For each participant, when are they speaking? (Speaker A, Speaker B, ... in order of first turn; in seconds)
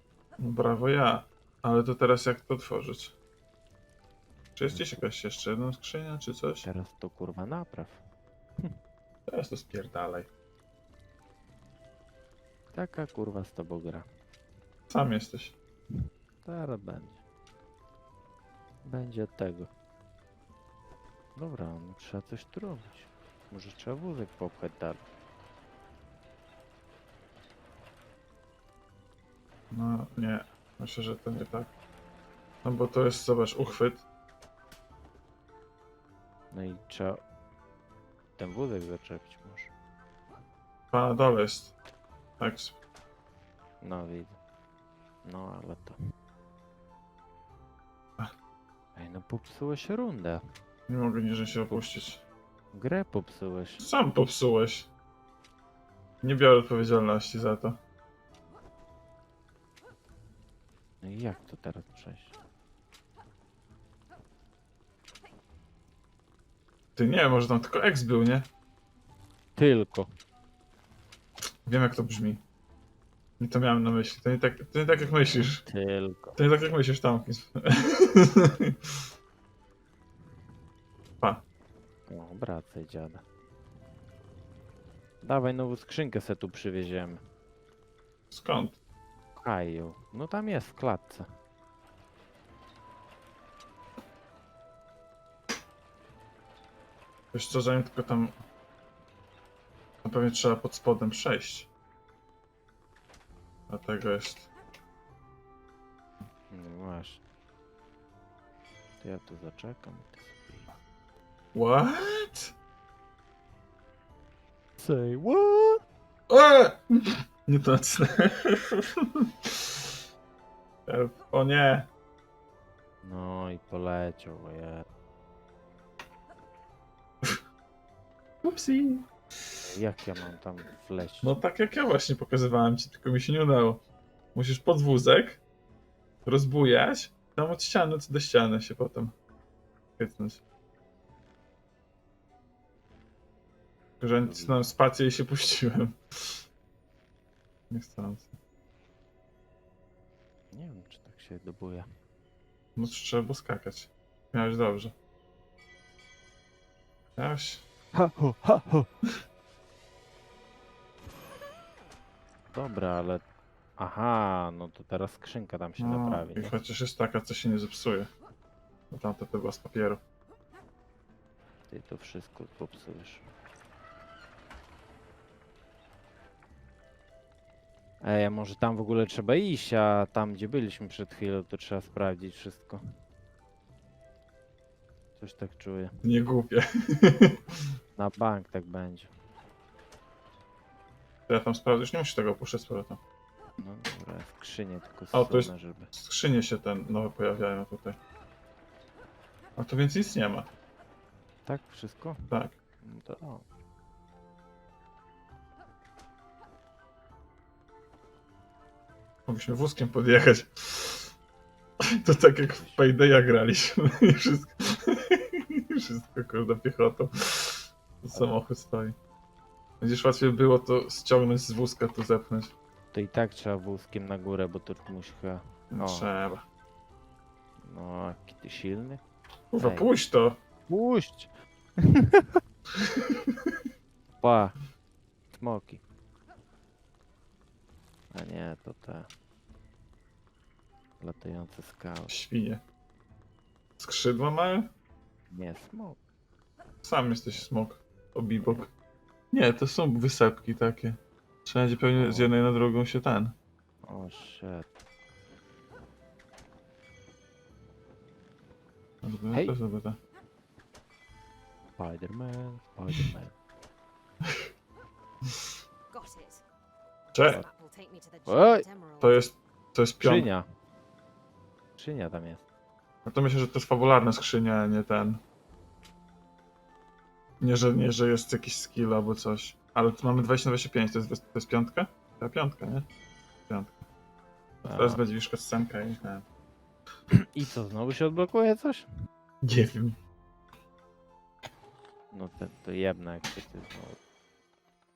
Speaker A: 0.4-3.1, 4.6-6.7, 9.3-10.3, 14.9-15.6, 29.7-31.7, 32.6-34.0, 40.9-41.7, 42.4-42.8, 50.9-52.2, 53.8-54.9, 56.2-57.8, 67.0-68.5, 71.7-72.4, 73.4-75.6, 76.4-78.8, 88.3-88.8, 97.3-98.4, 100.0-101.7, 103.7-104.5, 111.5-112.5, 116.3-119.5, 120.9-121.9, 128.4-129.1, 131.2-133.8, 134.3-135.4, 136.3-139.1, 140.0-140.4, 144.0-146.0, 147.7-148.3, 152.8-154.9, 157.2-157.6, 165.8-168.1, 168.9-170.0, 186.0-187.4, 191.3-193.0, 195.1-198.0, 199.6-200.5, 202.3-202.6, 209.3-211.1, 212.0-218.9, 219.8-222.5, 225.7-226.4, 229.5-230.4, 242.1-242.6, 243.8-244.7, 246.8-248.7, 249.3-253.3, 259.0-260.0, 267.1-267.4, 269.0-270.3, 273.1-275.2, 277.4-282.9, 283.5-283.8, 284.6-286.2, 289.4-289.9
Speaker B: 4.7-5.1, 6.6-8.0, 12.7-14.1, 16.4-17.2, 18.8-19.7, 21.4-25.0, 36.5-37.2, 38.4-39.7, 43.8-44.4, 45.2-46.0, 49.0-50.4, 51.7-52.0, 52.7-53.9, 61.0-62.4, 69.6-70.1, 74.9-76.8, 82.1-83.2, 85.2-87.2, 89.4-91.3, 106.5-107.2, 109.0-110.7, 114.8-115.8, 123.0-124.8, 129.7-131.4, 144.2-144.6, 150.5-151.8, 157.9-158.9, 162.5-163.2, 163.8-166.6, 171.7-173.2, 178.0-182.8, 185.2-185.9, 188.0-189.1, 193.6-195.9, 201.4-203.4, 212.6-212.9, 222.9-226.1, 227.6-229.0, 229.6-229.9, 230.7-232.4, 234.2-234.6, 235.3-235.8, 238.1-239.1, 241.0-242.2, 245.3-246.0, 251.9-252.3, 253.8-254.7, 261.8-263.3, 268.3-268.6, 270.0-270.4, 271.8-272.4, 284.6-285.0, 287.1-288.9, 292.1-294.0
Speaker C: 265.9-266.4, 267.2-269.3